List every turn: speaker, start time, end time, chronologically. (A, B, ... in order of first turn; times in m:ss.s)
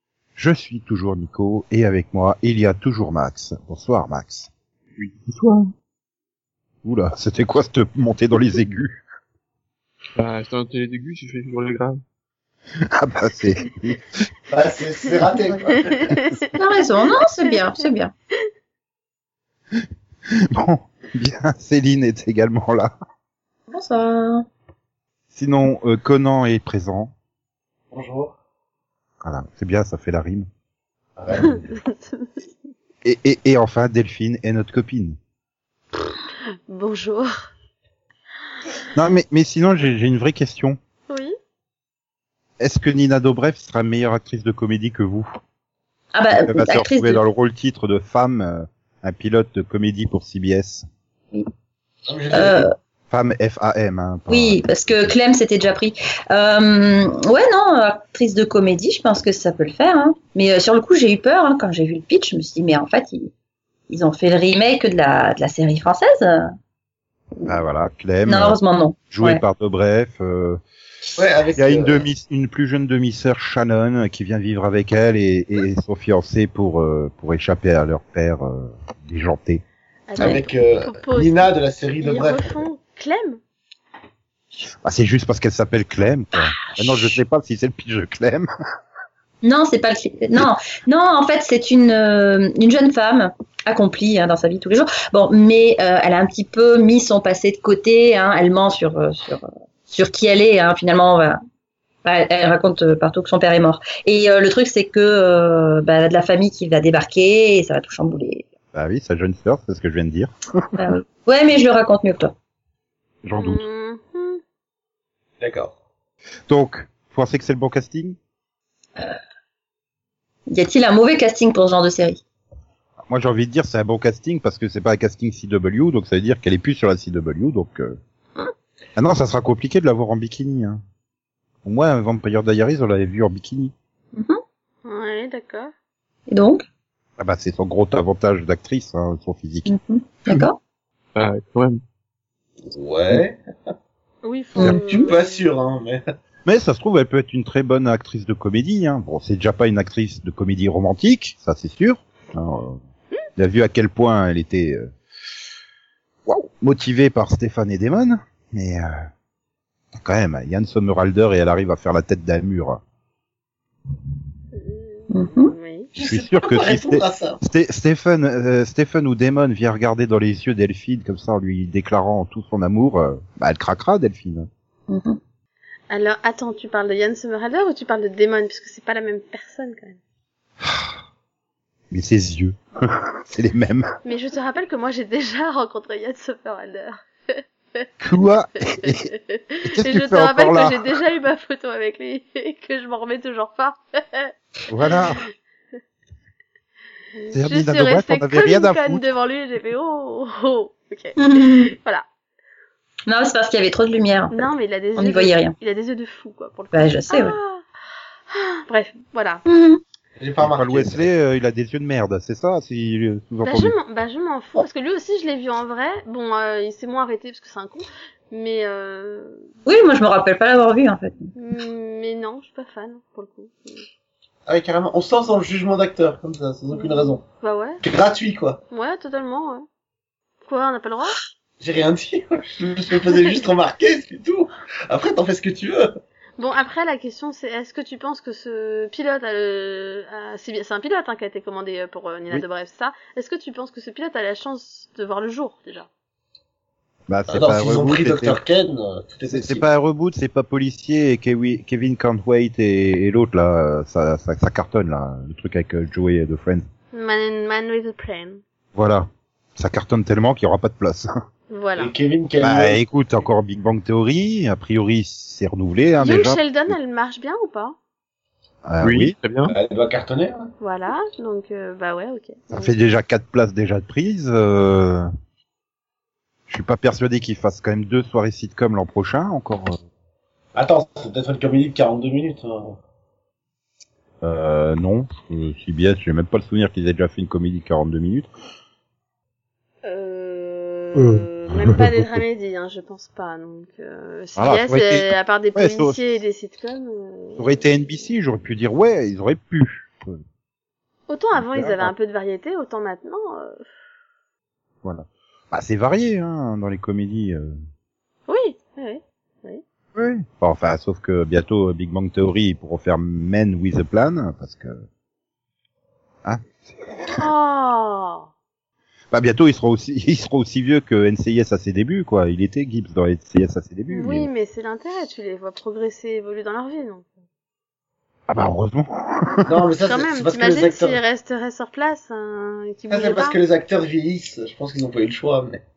0:00.4-0:04.5 A
0:05.0-0:05.7 B
0:06.8-0:09.0 A
0:10.2-0:12.0 B
0:12.9-0:14.2 A
0:14.5-0:16.2 C
0:15.8-0:17.9 D
0:16.5-0:18.1 E
0:19.7-0:22.9 A
0:23.7-0:24.4 E
0:25.3-0:27.1 A
0:27.9-0:28.3 C
0:29.2-0:30.5 A
0:31.2-0:31.6 C
0:31.4-0:32.3 D
0:33.0-0:35.2 A
0:35.9-0:37.4 D
0:38.9-0:40.8 A
0:41.1-0:41.3 D
0:42.6-0:45.3 A
0:46.1-0:47.2 E
0:46.3-0:50.8 A
0:52.1-0:52.6 C
0:52.3-0:52.7 E
0:53.1-0:55.1 A
0:54.3-1:03.3 E
1:03.9-1:06.5 E
1:07.4-1:08.6 A
1:08.3-1:09.4 E
1:09.1-1:10.6 A
1:11.2-1:12.0 C
1:11.6-1:19.6 A
1:20.1-1:23.4 D
1:20.2-1:22.6 C
1:24.8-1:28.5 A
1:26.6-1:27.1 E
1:29.4-1:41.4 E
1:42.0-1:48.4 E
1:48.7-1:50.8 A
1:50.7-1:52.3 E
1:53.2-1:53.6 A
1:53.4-1:54.4 D
1:55.4-1:55.7 C
1:56.5-1:58.2 A
2:00.5-2:02.2 E
2:03.1-2:08.0 A
2:09.0-2:10.8 A
2:11.6-2:13.7 A
2:14.8-2:15.7 D
2:16.3-2:16.6 E
2:17.2-2:19.7 A
2:19.6-2:20.6 E
2:21.2-2:21.8 B
2:22.7-2:23.4 C
2:24.2-2:25.5 D
2:24.6-2:26.0 C
2:26.4-2:32.8 A
2:33.4-2:34.9 A
2:36.2-2:39.0 A
2:39.9-2:42.8 A
2:44.6-2:45.9 D
2:45.1-2:45.5 E
2:45.9-2:47.4 C
2:46.1-2:54.5 A
2:54.9-2:55.2 E
2:55.9-3:00.0 D
3:00.6-3:00.9 A
3:01.9-3:03.9 A
3:04.0-3:07.9 D
3:08.0-3:09.1 A
3:08.7-3:14.3 D
3:09.7-3:10.8 A
3:14.7-3:15.2 A
3:17.2-3:22.0 D
3:17.3-3:19.0 A
3:21.2-3:21.7 E
3:23.1-3:25.5 E
3:24.3-3:27.6 D
3:26.7-3:27.4 E
3:28.3-3:29.4 D
3:29.5-3:29.8 E
3:30.2-3:31.0 C
3:30.4-3:33.7 A
3:33.4-3:39.5 D
3:39.6-3:41.2 E
3:41.4-3:43.8 D
3:44.5-3:47.2 C
3:46.7-3:47.8 D
3:47.8-3:48.6 C
3:48.7-3:49.6 D
3:50.4-3:51.2 D
3:51.6-3:55.9 C
3:56.4-4:05.9 D
4:07.1-4:08.4 A
4:07.3-4:09.6 C
4:09.3-4:16.7 A
4:16.9-4:18.4 D
4:18.7-4:21.1 A
4:21.5-4:21.9 D
4:21.8-4:22.8 C
4:22.4-4:26.7 A
4:26.0-4:27.7 D
4:28.6-4:29.1 A
4:28.8-4:29.5 B
4:29.4-4:30.5 C
4:30.6-4:32.7 D
4:32.5-4:35.1 A
4:36.5-4:39.8 A
4:40.5-4:42.8 C
4:44.2-4:48.3 A
4:49.8-4:58.1 D
4:51.0-4:52.0 A
4:54.4-4:56.2 A
4:57.4-5:00.2 A
5:01.1-5:03.6 D
5:01.4-5:01.9 A
5:04.8-5:07.6 A
5:08.3-5:09.6 D
5:09.9-5:14.8 A
5:16.2-5:17.2 A
5:17.2-5:18.3 D
5:19.1-5:24.3 A
5:23.9-5:27.1 D
5:28.3-5:29.6 A
5:29.4-5:31.0 C
5:29.9-5:33.4 D
5:32.9-5:35.6 C